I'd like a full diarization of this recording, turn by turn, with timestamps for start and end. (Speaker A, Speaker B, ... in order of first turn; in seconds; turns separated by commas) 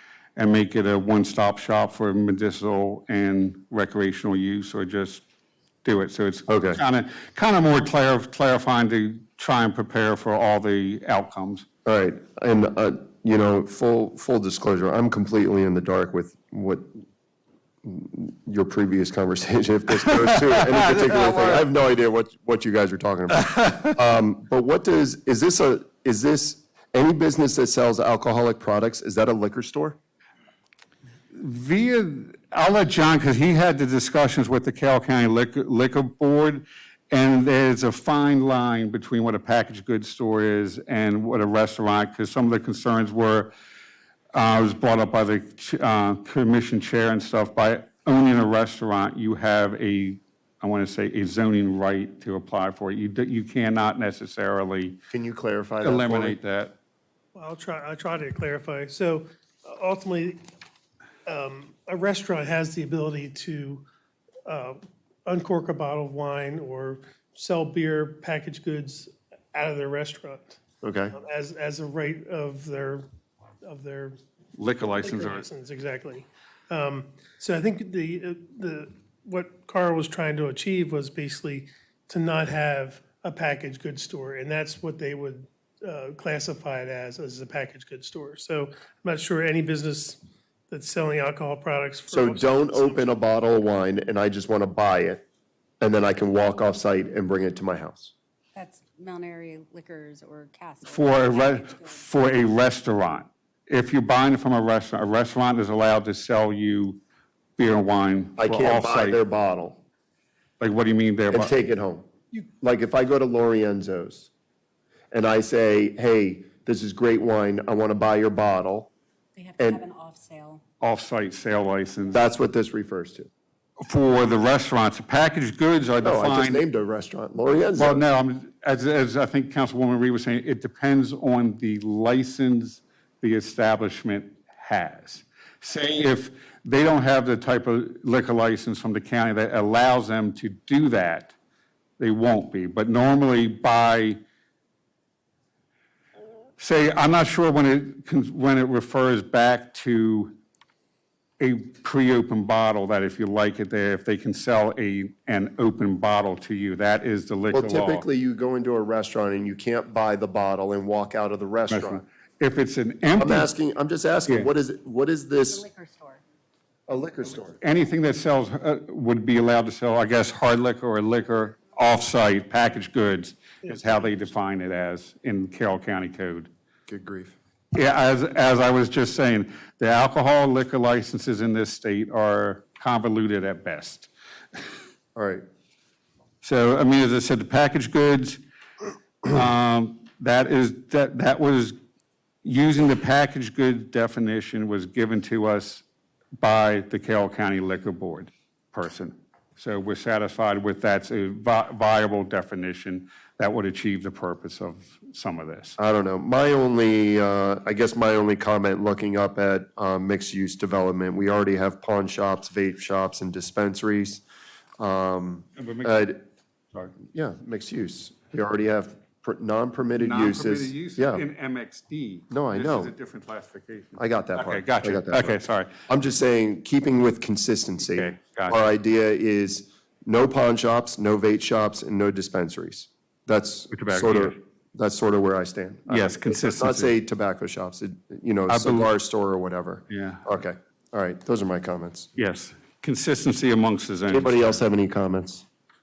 Speaker A: 0.4-5.2, Speaker A: 5.8-11.7, Speaker B: 6.5-6.8, Speaker B: 11.8-16.9, Speaker B: 17.8-30.0, Speaker A: 21.0-21.6, Speaker A: 31.3-43.5, Speaker A: 44.3-55.0, Speaker B: 55.1-56.4, Speaker A: 55.8-56.8, Speaker C: 57.4-60.4, Speaker C: 61.3-63.9, Speaker C: 64.5-70.6, Speaker B: 70.8-71.1, Speaker C: 71.2-73.1, Speaker C: 73.6-74.2, Speaker A: 74.6-75.5, Speaker C: 75.0-93.1, Speaker B: 92.1-95.2, Speaker B: 95.8-98.1, Speaker D: 98.5-102.0, Speaker A: 100.8-107.0, Speaker A: 107.6-109.2, Speaker B: 108.4-109.8, Speaker A: 110.6-111.5, Speaker B: 111.3-114.3, Speaker B: 115.1-118.9, Speaker D: 119.3-120.6, Speaker A: 120.8-122.3, Speaker B: 122.1-123.3, Speaker A: 123.8-126.6, Speaker B: 126.0-128.0, Speaker A: 127.8-141.3, Speaker A: 142.0-144.2, Speaker A: 146.6-150.4, Speaker A: 151.4-158.1, Speaker B: 157.5-162.1, Speaker A: 161.7-163.5, Speaker B: 163.2-165.6, Speaker D: 165.5-166.2, Speaker B: 166.9-167.6, Speaker A: 167.6-176.5, Speaker B: 176.9-177.4, Speaker A: 177.7-184.1, Speaker B: 185.2-185.4, Speaker A: 186.4-188.4, Speaker A: 189.2-191.8, Speaker A: 192.4-195.8, Speaker A: 196.4-205.8, Speaker B: 205.8-214.2, Speaker B: 214.8-216.2, Speaker A: 215.6-216.2, Speaker B: 217.1-221.2, Speaker A: 220.0-225.7, Speaker B: 222.3-222.9, Speaker B: 224.0-242.1, Speaker A: 227.9-228.6, Speaker A: 233.7-234.4, Speaker A: 235.9-236.9, Speaker A: 238.5-238.9, Speaker A: 239.9-240.2, Speaker A: 242.2-244.6, Speaker B: 244.1-245.4